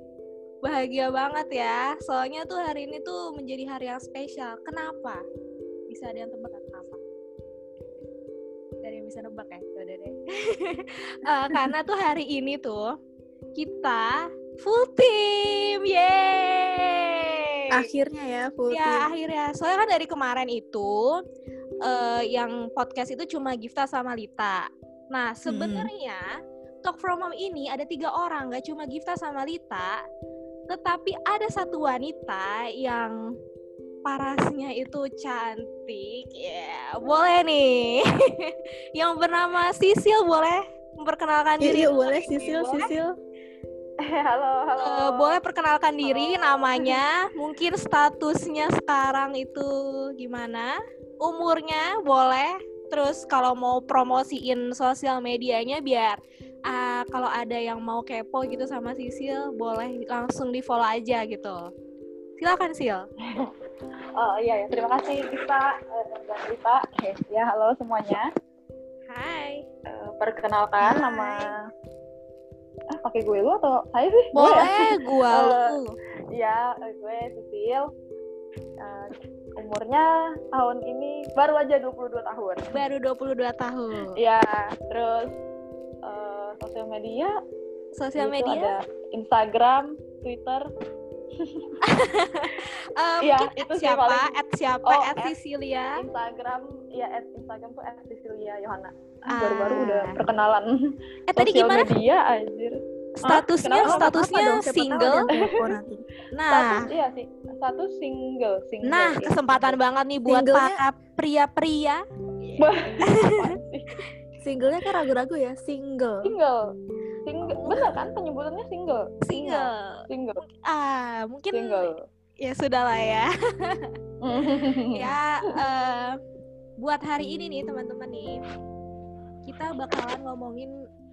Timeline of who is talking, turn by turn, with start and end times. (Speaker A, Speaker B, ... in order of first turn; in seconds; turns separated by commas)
Speaker A: 0.6-5.2, Speaker A: 5.9-7.0, Speaker A: 8.8-12.9, Speaker A: 13.6-17.8, Speaker B: 17.7-19.1, Speaker A: 18.7-21.2, Speaker A: 21.8-26.3, Speaker B: 25.5-25.9, Speaker A: 26.8-30.0, Speaker A: 30.7-33.2, Speaker A: 34.0-42.9, Speaker B: 41.6-43.1, Speaker C: 44.0-45.4, Speaker A: 44.8-61.7, Speaker C: 46.0-47.0, Speaker A: 62.4-63.1, Speaker C: 64.2-68.3, Speaker A: 69.1-69.6, Speaker C: 69.9-71.5, Speaker B: 70.8-71.5, Speaker C: 73.0-75.7, Speaker A: 74.3-76.0, Speaker C: 76.3-77.9, Speaker C: 78.8-82.7, Speaker A: 82.7-84.2, Speaker C: 84.2-85.3, Speaker C: 86.0-87.3, Speaker A: 88.0-88.8, Speaker C: 88.2-90.6, Speaker C: 91.4-91.7, Speaker A: 91.8-96.0, Speaker C: 93.2-94.3, Speaker C: 94.9-95.3, Speaker C: 96.0-104.4, Speaker A: 99.3-100.2, Speaker A: 101.3-101.9, Speaker A: 103.2-105.2, Speaker B: 103.8-106.0, Speaker C: 105.3-105.7, Speaker A: 106.3-106.9, Speaker C: 106.5-109.8, Speaker A: 108.8-113.5, Speaker B: 110.3-110.8, Speaker C: 112.6-113.9, Speaker B: 114.4-116.3, Speaker C: 116.2-116.6, Speaker C: 117.3-120.4, Speaker A: 117.5-118.0, Speaker A: 119.3-126.2, Speaker C: 121.5-122.0, Speaker C: 124.2-125.0, Speaker A: 126.8-128.4, Speaker A: 129.5-130.7